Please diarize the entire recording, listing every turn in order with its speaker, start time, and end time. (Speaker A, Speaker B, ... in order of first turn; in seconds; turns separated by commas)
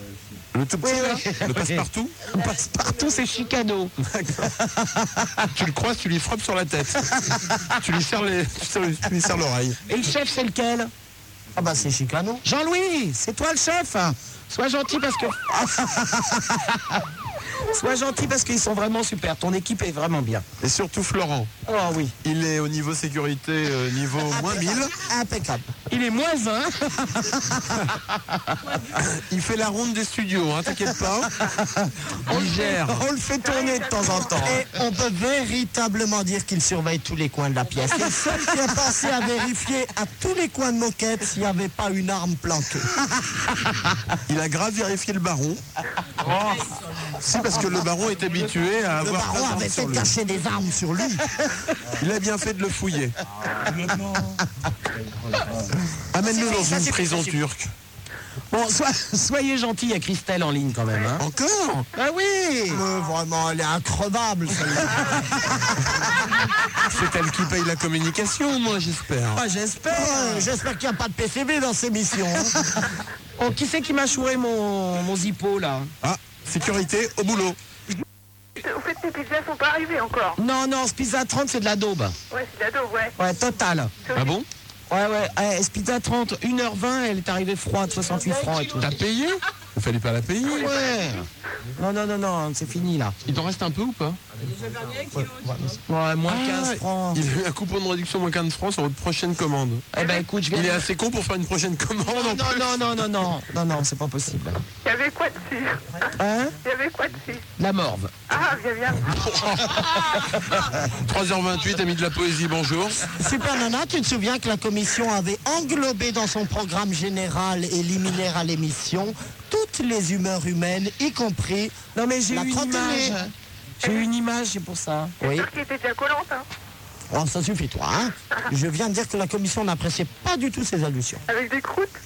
Speaker A: 0.5-2.2, Speaker B: 0.8-5.5, Speaker C: 2.3-3.5, Speaker A: 4.0-4.5, Speaker A: 5.5-9.8, Speaker B: 7.2-7.7, Speaker B: 9.9-10.9, Speaker D: 11.5-12.4, Speaker B: 12.4-17.0, Speaker B: 17.6-20.5, Speaker A: 20.6-21.6, Speaker B: 21.7-22.1, Speaker A: 22.2-24.9, Speaker D: 24.3-25.7, Speaker B: 25.9-27.9, Speaker C: 28.6-29.2, Speaker A: 29.1-31.3, Speaker B: 31.4-34.6, Speaker A: 32.3-33.1, Speaker C: 33.4-34.6, Speaker D: 34.3-42.9, Speaker B: 37.9-38.4, Speaker A: 44.3-45.6, Speaker A: 46.2-46.6, Speaker C: 46.4-47.2, Speaker A: 47.2-50.1, Speaker D: 49.0-51.5, Speaker A: 52.0-53.2, Speaker B: 53.7-54.4, Speaker A: 56.1-57.7, Speaker D: 56.2-57.4, Speaker B: 58.5-61.2, Speaker A: 61.2-61.9, Speaker B: 61.9-62.8, Speaker D: 62.7-66.1, Speaker A: 66.9-69.4, Speaker B: 69.3-70.5, Speaker D: 69.9-72.6, Speaker B: 73.4-75.9, Speaker A: 76.0-77.6, Speaker E: 78.6-80.4, Speaker B: 80.4-82.2, Speaker E: 82.3-83.2, Speaker B: 83.2-83.9, Speaker E: 84.1-84.4, Speaker A: 84.1-84.5, Speaker B: 84.9-89.0, Speaker C: 87.9-89.2, Speaker A: 88.8-90.8, Speaker B: 90.4-91.3, Speaker C: 90.5-90.8, Speaker B: 91.8-93.2, Speaker A: 93.2-94.2, Speaker C: 94.3-95.8, Speaker D: 95.1-95.8, Speaker B: 95.9-97.2, Speaker A: 96.3-99.9, Speaker B: 99.9-100.8, Speaker C: 100.0-100.2, Speaker A: 100.5-102.8, Speaker B: 102.0-104.6, Speaker E: 104.8-107.5, Speaker B: 106.2-106.6, Speaker B: 107.6-108.1, Speaker E: 108.3-109.7, Speaker A: 109.2-109.8, Speaker A: 110.8-113.1, Speaker D: 113.1-121.8, Speaker B: 122.0-125.2, Speaker D: 122.3-123.2, Speaker D: 125.2-125.5, Speaker E: 125.2-126.5, Speaker D: 127.1-131.2, Speaker E: 131.3-131.9